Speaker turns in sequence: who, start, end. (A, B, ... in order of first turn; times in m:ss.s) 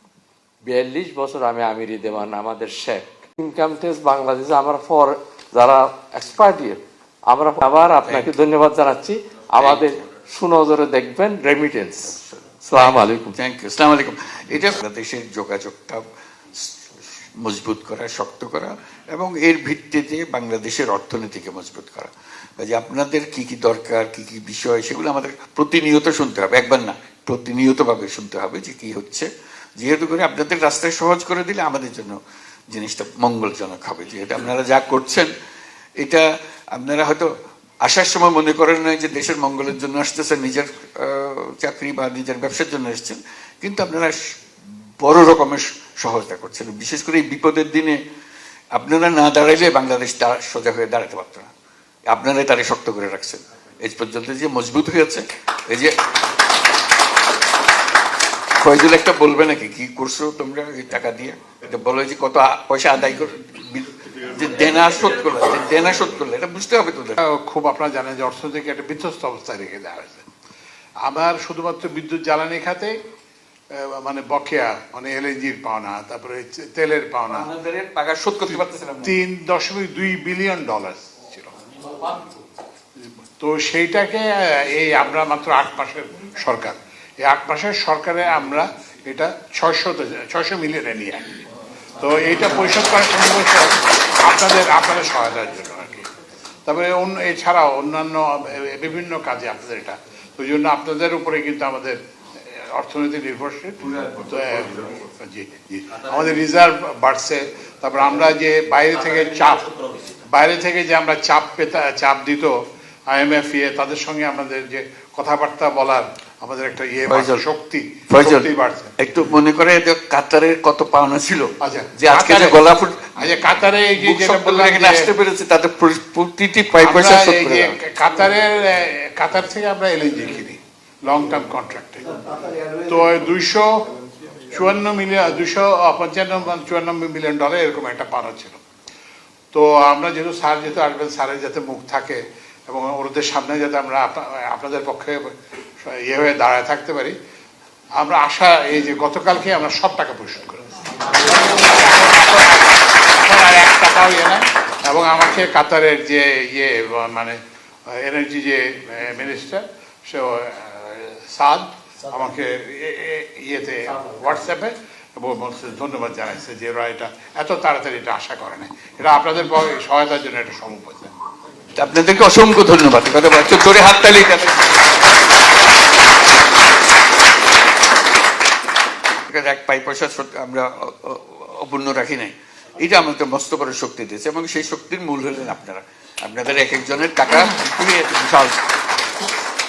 0:00.6-0:13.4 A
0:08.0-0:08.3 B
0:09.6-0:09.9 B
0:12.0-0:16.0 B
0:16.6-0:32.2 B
0:32.7-0:35.3 B
0:36.0-0:37.3 B
0:37.8-0:44.3 B
0:45.0-0:48.0 B
0:48.7-0:51.5 B
0:52.1-0:56.0 B
0:58.6-1:07.2 B
1:07.2-1:10.2 C
1:11.0-1:13.0 C
1:13.7-1:17.5 C
1:17.3-1:19.2 B
1:18.5-1:21.5 C
1:23.0-1:31.4 C
1:32.0-1:36.1 C
1:36.7-1:42.0 C
1:42.5-1:49.7 C
1:50.3-1:52.5 C
1:53.1-1:58.9 C
1:57.0-1:57.4 B
1:58.1-2:03.4 B
2:01.6-2:02.6 C
2:03.2-2:05.1 C
2:04.0-2:07.8 B
2:06.8-2:12.0 C
2:12.8-2:13.8 C
2:14.5-2:18.6 C
2:19.5-2:27.2 C
2:28.0-2:30.6 C
2:31.2-2:51.1 C
2:51.8-2:54.8 B
2:59.3-3:08.6 B